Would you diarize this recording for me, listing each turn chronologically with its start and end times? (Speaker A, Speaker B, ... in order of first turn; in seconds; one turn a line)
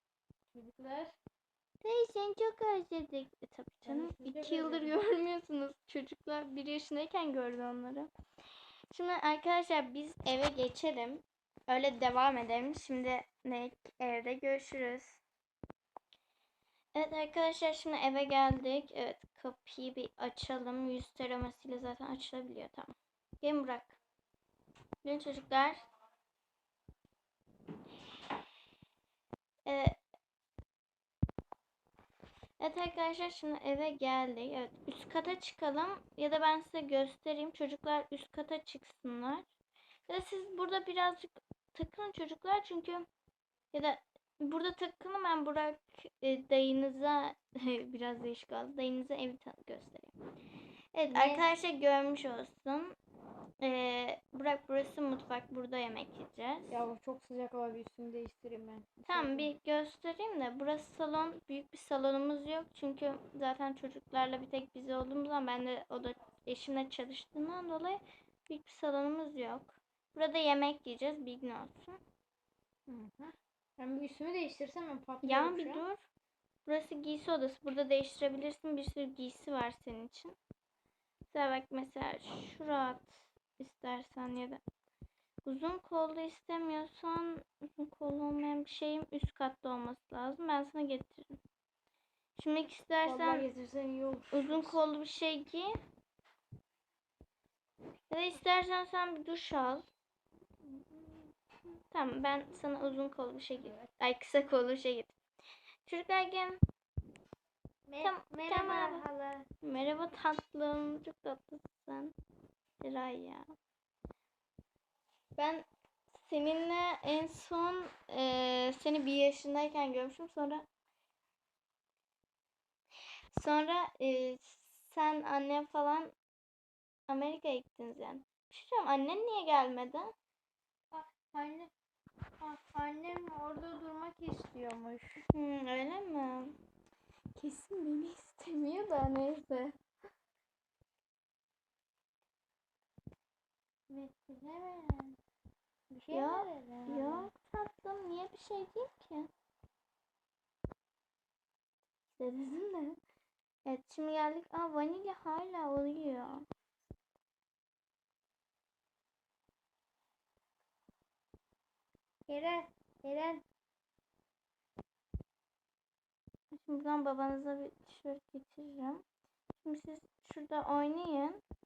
Speaker A: 0.5-1.2
Speaker B: 1.8-8.1
Speaker A: 3.8-4.9
Speaker B: 8.9-15.2
Speaker B: 16.9-24.0
Speaker B: 25.0-25.8
Speaker B: 29.6-30.0
Speaker B: 32.6-39.5
Speaker B: 40.1-43.0
Speaker B: 43.7-50.1
Speaker B: 50.9-53.0
Speaker A: 51.1-51.5
Speaker B: 53.6-56.8
Speaker A: 56.7-59.5
Speaker B: 59.1-72.0
Speaker A: 72.9-75.8
Speaker B: 75.2-76.0
Speaker B: 76.7-80.3
Speaker B: 81.3-84.6
Speaker B: 85.4-91.4
Speaker B: 92.3-93.5
Speaker A: 93.0-94.8
Speaker B: 94.3-95.7
Speaker B: 98.1-99.9
Speaker B: 100.7-101.2
Speaker B: 101.9-105.2
Speaker B: 105.8-106.6
Speaker A: 107.9-109.4
Speaker B: 108.0-109.1
Speaker B: 109.6-112.1
Speaker B: 112.8-113.5
Speaker B: 115.3-120.7
Speaker B: 123.3-126.1
Speaker B: 127.1-130.1
Speaker A: 130.9-131.7
Speaker A: 132.4-135.2
Speaker B: 135.3-136.5
Speaker B: 137.3-139.7
Speaker A: 143.9-145.2
Speaker A: 145.9-147.3
Speaker B: 146.1-149.3
Speaker B: 152.1-153.0
Speaker B: 153.7-156.4
Speaker A: 162.3-163.4
Speaker B: 166.5-169.0
Speaker B: 169.6-171.4